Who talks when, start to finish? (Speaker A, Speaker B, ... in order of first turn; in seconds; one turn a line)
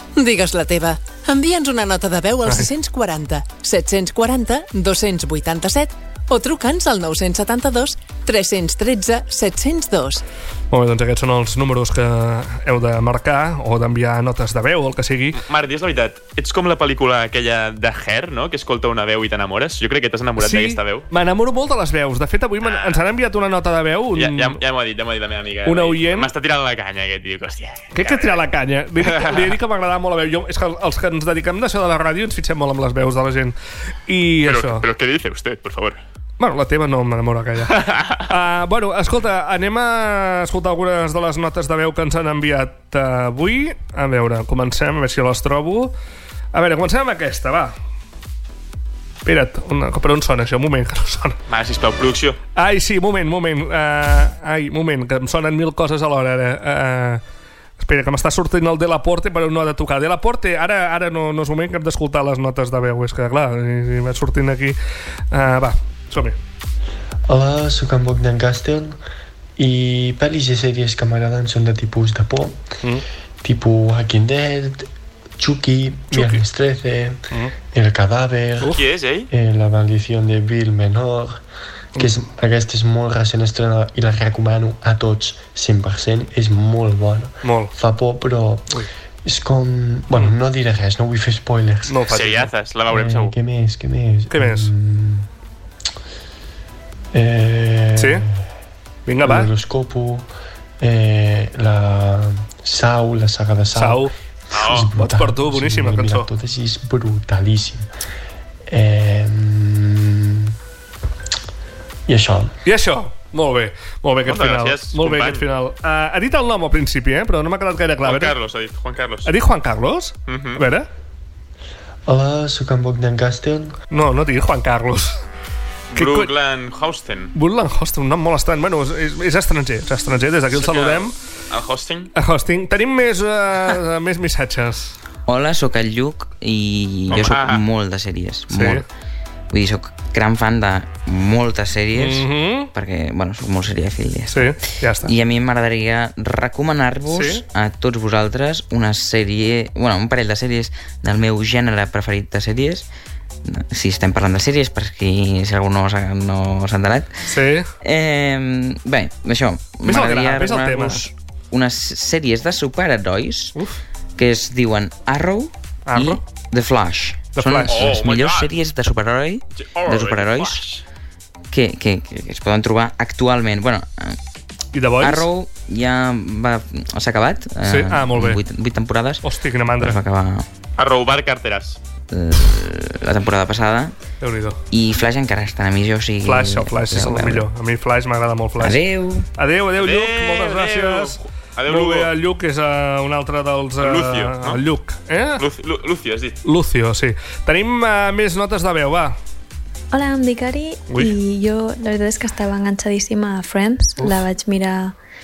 Speaker A: 0.1-10.2
Speaker B: 2.4-2.7
Speaker B: 10.7-15.4
Speaker C: 15.3-21.1
Speaker B: 20.4-24.6
Speaker C: 22.6-23.0
Speaker C: 24.1-28.4
Speaker B: 25.6-26.3
Speaker B: 27.9-33.5
Speaker C: 29.0-29.5
Speaker B: 34.1-34.8
Speaker C: 34.4-36.0
Speaker B: 36.4-45.9
Speaker C: 37.7-38.2
Speaker B: 46.5-47.7
Speaker B: 49.2-51.4
Speaker C: 51.5-52.4
Speaker B: 52.5-57.2
Speaker B: 57.8-64.8
Speaker B: 65.3-66.4
Speaker D: 67.3-69.0
Speaker D: 69.6-72.6
Speaker D: 73.4-78.8
Speaker B: 76.1-76.4
Speaker C: 78.7-79.3
Speaker D: 79.3-81.4
Speaker D: 82.0-92.1
Speaker B: 87.4-87.7
Speaker B: 91.9-92.5
Speaker C: 92.1-93.3
Speaker D: 92.9-95.3
Speaker B: 94.3-94.7
Speaker D: 97.1-98.4
Speaker B: 98.0-98.2
Speaker B: 99.1-99.5
Speaker D: 99.2-100.3
Speaker D: 100.8-107.9
Speaker B: 103.7-104.1
Speaker C: 104.5-104.9
Speaker B: 104.9-106.3
Speaker D: 108.7-110.5
Speaker D: 112.1-112.5
Speaker B: 112.6-118.3
Speaker C: 114.3-115.4
Speaker C: 118.0-119.3
Speaker B: 119.2-120.9
Speaker C: 120.3-120.6
Speaker D: 122.0-123.7
Speaker B: 123.9-125.2
Speaker C: 125.9-127.3
Speaker B: 125.9-126.3
Speaker B: 127.3-131.1
Speaker C: 130.5-132.1
Speaker B: 132.2-134.9
Speaker E: 135.2-138.8
Speaker C: 137.1-137.6
Speaker B: 138.5-138.8
Speaker E: 139.5-152.9
Speaker B: 141.9-142.7
Speaker B: 144.3-145.1
Speaker B: 147.1-147.4
Speaker E: 153.4-157.1
Speaker B: 157.3-157.7
Speaker E: 157.8-163.6
Speaker B: 159.8-161.1
Speaker E: 164.2-170.6
Speaker B: 165.9-166.2
Speaker B: 167.3-167.8
Speaker C: 167.7-168.5
Speaker C: 169.6-170.8
Speaker E: 171.5-174.2
Speaker B: 174.7-175.3
Speaker E: 175.0-179.2
Speaker B: 177.6-178.4
Speaker B: 179.2-180.0
Speaker E: 179.8-180.4
Speaker C: 180.8-181.8
Speaker E: 182.1-183.9
Speaker B: 184.2-184.6
Speaker E: 184.7-187.4
Speaker B: 186.2-188.8
Speaker E: 188.6-189.3
Speaker B: 189.4-195.4
Speaker C: 189.8-192.1
Speaker C: 193.8-194.6
Speaker C: 195.4-196.4
Speaker B: 196.4-199.1
Speaker F: 199.9-204.9
Speaker B: 200.9-201.1